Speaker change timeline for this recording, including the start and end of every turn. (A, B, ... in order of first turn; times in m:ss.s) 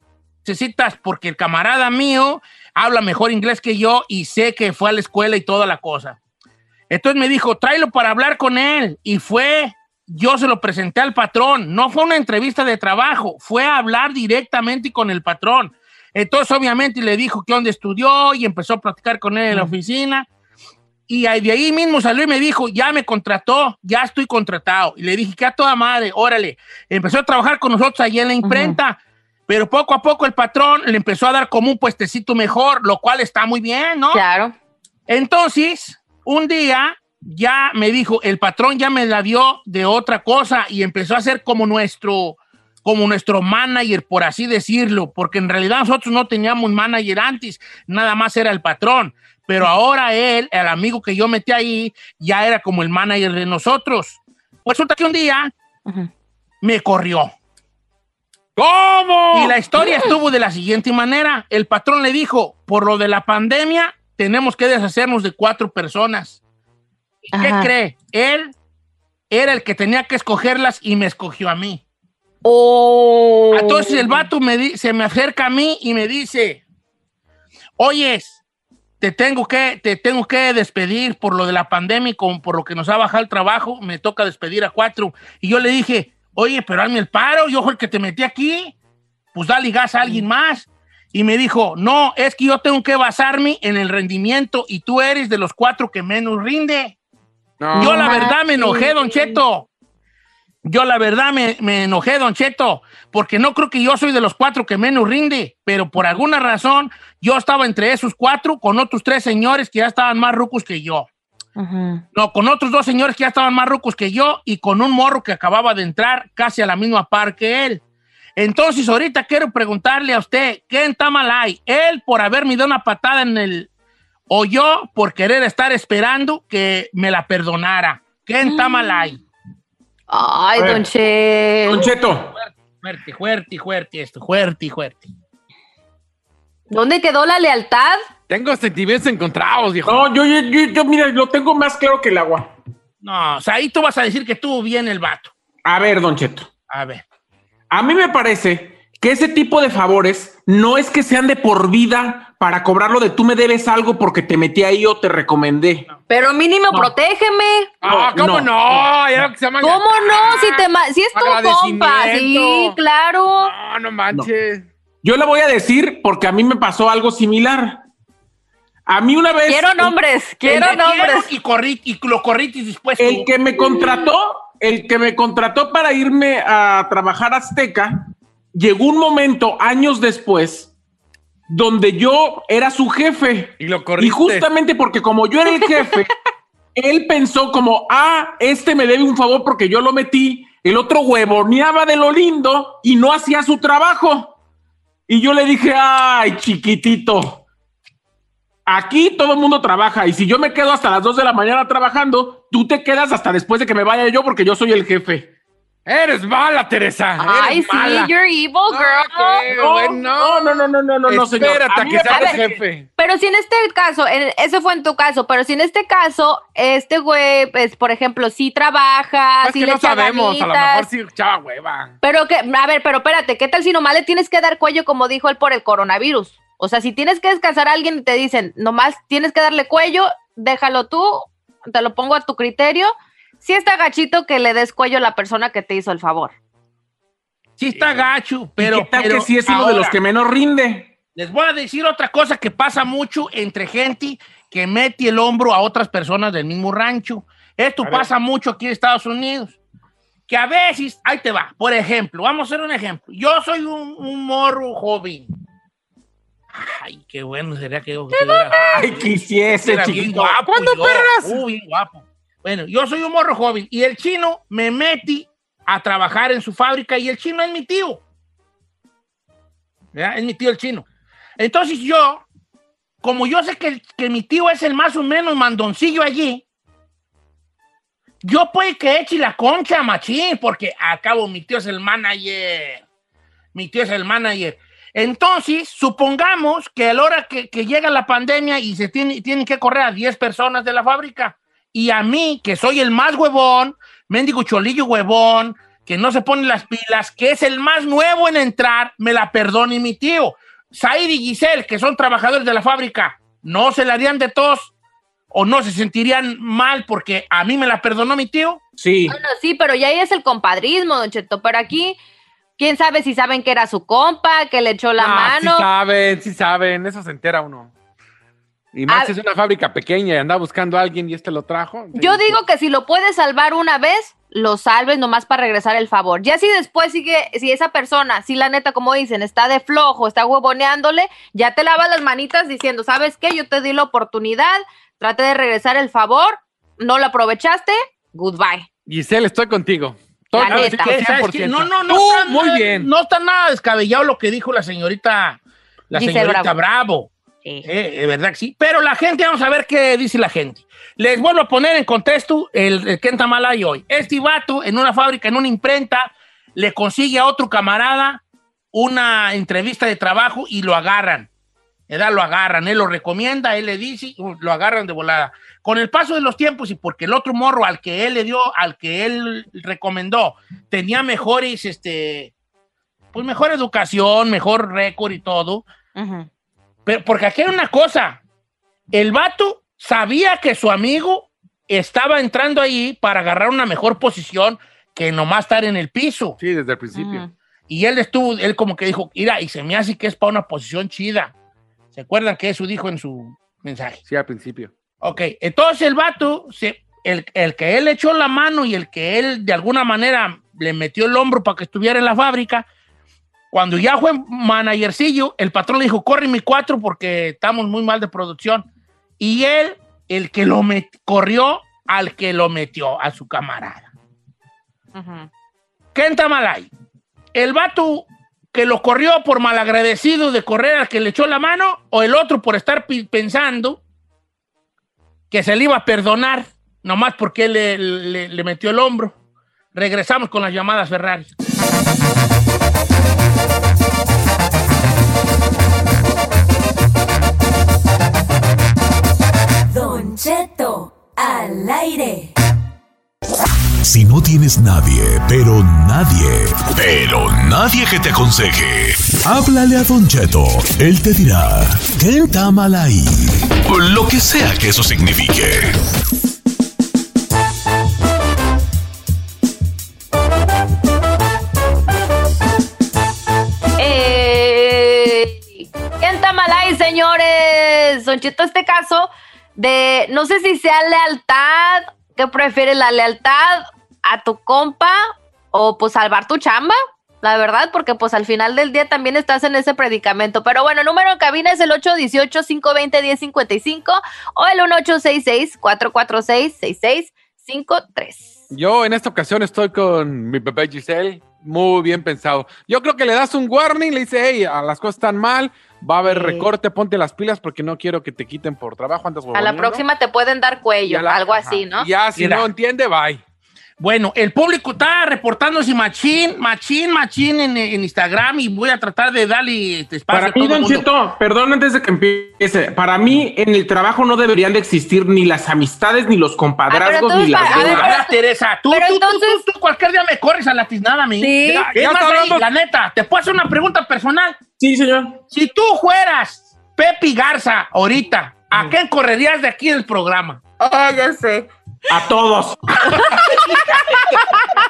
0:00.4-0:06.2 A
0:06.9-0:20.3 A
0:21.1-0:29.0 A
0:28.4-0:28.8 B
0:29.5-0:34.2 A
0:34.1-0:34.5 B
0:35.1-0:55.5 A
0:56.6-0:57.3 A
0:58.6-0:59.8 C
0:59.3-1:06.4 A
1:07.3-1:07.7 B
1:07.3-1:08.5 A
1:09.3-1:11.8 A
1:12.4-1:14.3 B
1:13.5-1:16.6 A
1:17.8-1:18.4 A
1:19.0-1:28.7 A
1:29.3-1:37.0 A
1:30.0-1:30.3 B
1:37.6-1:38.3 C
1:37.7-1:39.4 B
1:37.8-1:39.7 A
1:40.6-1:51.1 A
1:51.6-1:52.0 B
1:52.2-1:57.8 A
1:58.4-2:03.7 A
2:04.3-2:09.2 A
2:08.4-2:09.2 B
2:10.1-2:11.9 B
2:10.6-2:10.8 D
2:11.7-2:12.3 D
2:12.3-2:15.1 A
2:16.7-2:18.0 B
2:18.3-2:20.1 C
2:19.8-2:22.5 D
2:23.0-2:25.3 A
2:25.6-2:26.5 D
2:26.7-2:27.0 A
2:27.7-2:35.9 D
2:36.1-2:38.1 B
2:37.8-2:42.8 C
2:38.1-2:39.3 D
2:39.6-2:43.5 B
2:43.4-2:44.7 C
2:45.0-2:47.8 D
2:48.9-2:50.0 D
2:49.5-2:51.3 B
2:50.4-2:53.3 A
2:53.0-3:00.7 D
3:01.5-3:06.1 D
3:03.6-3:04.5 C
3:06.8-3:14.4 D
3:15.1-3:17.4 D
3:18.7-3:25.3 D
3:25.9-3:28.1 C
3:27.2-3:29.5 B
3:28.7-3:32.9 C
3:29.5-3:32.4 D
3:32.0-3:32.4 B
3:33.0-3:40.9 B
3:39.4-3:42.0 C
3:42.0-3:56.3 B
3:57.6-4:00.0 A
3:58.6-4:00.9 D
4:01.2-4:09.6 A
4:10.3-4:15.3 A
4:16.5-4:19.1 A
4:18.7-4:20.4 D
4:19.6-4:28.0 A
4:20.5-4:21.4 C
4:29.9-4:30.8 A
4:31.4-4:32.2 A
4:33.0-4:36.4 A
4:38.2-4:42.8 A
4:43.5-5:04.7 A
5:05.3-5:08.6 A
5:08.8-5:09.2 D
5:09.1-5:12.0 B
5:12.6-5:15.7 B
5:15.0-5:17.7 C
5:18.7-5:22.4 C
5:18.9-5:19.1 B
5:22.0-5:38.7 B
5:38.9-5:42.9 C
5:40.4-5:40.9 B
5:40.4-5:45.4 A
5:45.9-5:47.1 A
5:45.9-5:46.6 B
5:47.6-5:58.2 A
5:58.7-6:01.3 A
6:01.9-6:12.3 A
6:13.1-6:15.6 A
6:16.0-6:16.3 B
6:16.9-6:18.2 A
6:18.9-6:26.4 A
6:26.4-6:27.3 C
6:26.9-6:27.3 B
6:27.7-6:31.3 A
6:31.9-6:34.0 A
6:34.1-6:34.7 C
6:35.0-6:42.6 A
6:43.5-6:48.7 A
6:49.2-6:53.9 A
6:55.0-6:55.3 B
6:55.9-6:56.7 A
6:57.3-7:03.8 A
7:05.3-7:09.2 A
7:09.7-7:11.3 A
7:19.7-7:22.3 E
7:23.8-7:35.8 F
7:43.8-7:55.0 B
7:55.5-8:08.4 B
8:08.5-8:19.8 C
8:16.0-8:16.5 B
8:19.3-8:21.9 B
8:20.8-8:23.2 C
8:22.2-8:22.5 A
8:23.8-8:30.9 A
8:30.1-8:38.0 D
8:36.7-8:38.2 B
8:37.3-8:44.4 A
8:38.7-8:39.4 B
8:41.2-8:41.7 B
8:41.6-8:42.4 C
8:44.6-8:45.2 D
8:45.3-8:50.4 A
8:50.6-8:51.5 B
8:51.9-8:52.6 D
8:53.0-8:53.9 B
8:53.4-8:53.8 A